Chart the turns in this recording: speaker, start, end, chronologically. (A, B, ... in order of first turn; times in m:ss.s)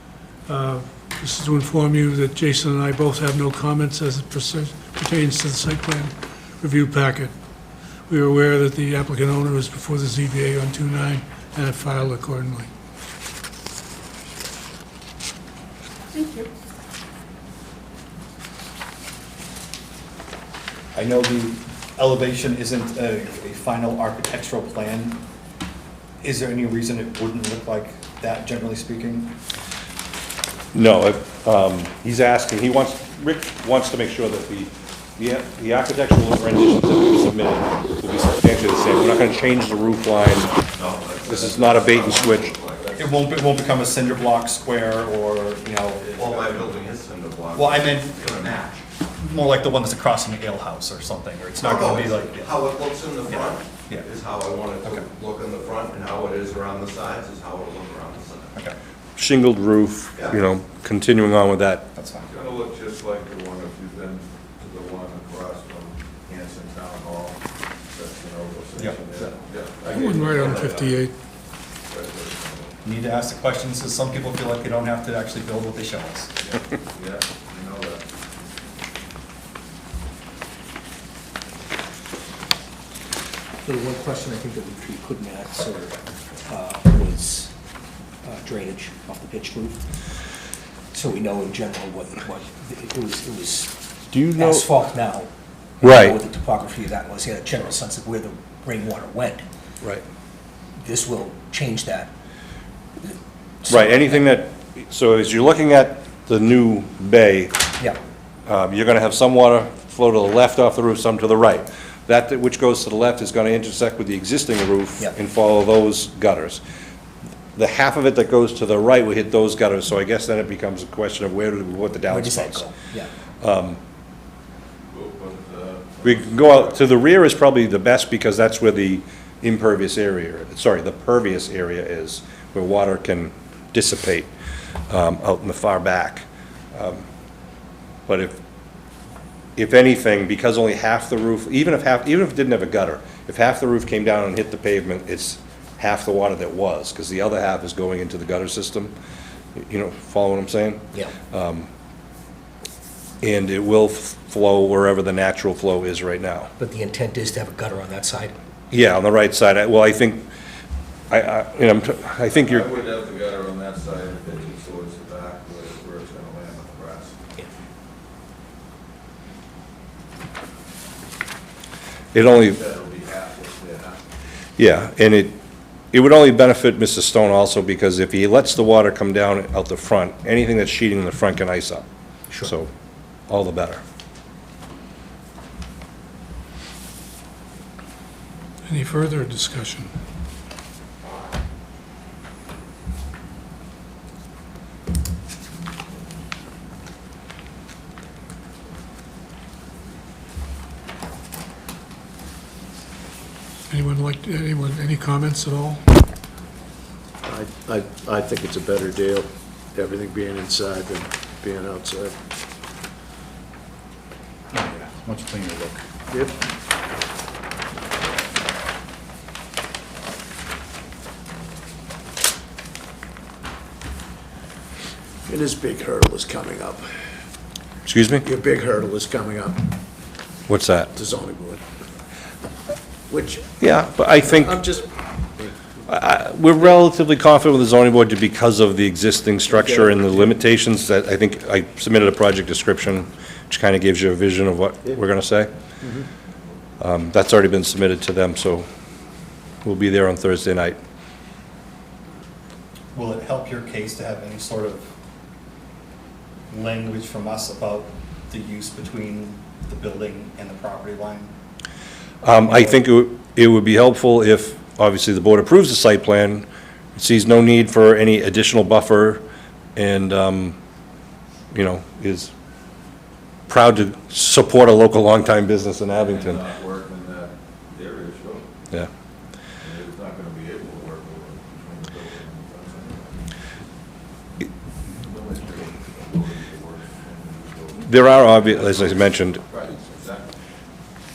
0:00.4-0:07.3 A
0:08.1-0:12.7 A
0:20.9-0:25.2 B
0:26.2-0:29.4 B
0:30.7-0:40.6 C
0:40.7-0:43.0 D
0:41.2-0:42.6 C
0:42.8-0:43.1 E
0:43.0-0:46.5 B
0:46.0-0:46.7 E
0:46.1-0:48.8 D
0:47.5-0:52.6 B
0:51.6-0:58.5 D
0:53.3-0:54.0 B
0:59.2-1:01.9 C
1:01.9-1:02.3 B
1:02.2-1:11.0 E
1:08.8-1:09.2 B
1:09.9-1:11.1 A
1:11.9-1:12.7 E
1:12.8-1:16.3 B
1:16.5-1:18.1 E
1:23.6-1:27.5 F
1:28.2-1:29.8 F
1:30.9-1:33.7 F
1:34.1-1:34.7 C
1:34.3-1:35.3 F
1:35.8-1:39.4 F
1:35.8-1:36.2 C
1:40.8-1:42.1 F
1:43.0-1:44.2 F
1:43.7-1:47.6 C
1:48.4-1:56.6 C
1:57.6-2:02.7 C
2:02.1-2:03.1 F
2:03.4-2:03.8 C
2:04.9-2:06.8 E
2:06.0-2:14.3 C
2:14.9-2:17.0 C
2:18.1-2:18.4 C
2:19.6-2:28.9 C
2:29.6-2:31.7 C
2:33.2-2:36.5 C
2:36.6-2:38.3 F
2:38.7-2:40.3 C
2:41.1-2:42.7 C
2:42.2-2:47.2 E
2:52.1-2:52.6 C
2:52.2-2:54.1 E
2:54.6-2:55.4 C
2:55.9-3:01.8 C
3:02.3-3:02.5 F
3:02.4-3:02.7 C
3:03.3-3:03.8 C
3:08.7-3:09.9 A
3:23.7-3:25.8 A
3:27.2-3:32.1 G
3:34.5-3:35.9 B
3:36.1-3:36.3 G
3:45.3-3:46.9 G
3:47.8-3:48.2 C
3:48.2-3:49.7 G
3:50.5-3:50.9 C
3:50.9-3:51.6 G
3:53.1-3:53.4 G
3:53.6-3:54.6 C
3:54.3-3:54.8 G
3:55.9-4:05.5 C
4:06.8-4:08.7 C
4:09.6-4:10.8 C
4:12.9-4:14.9 B
4:16.5-4:21.3 B
4:22.2-4:29.2 C
4:22.4-4:22.8 B
4:29.8-4:30.6 C
4:31.5-4:32.3 C
4:33.5-4:36.4 C
4:36.0-4:38.4 E
4:39.6-4:43.2 E
4:44.9-4:50.3 E
4:47.8-4:49.4 C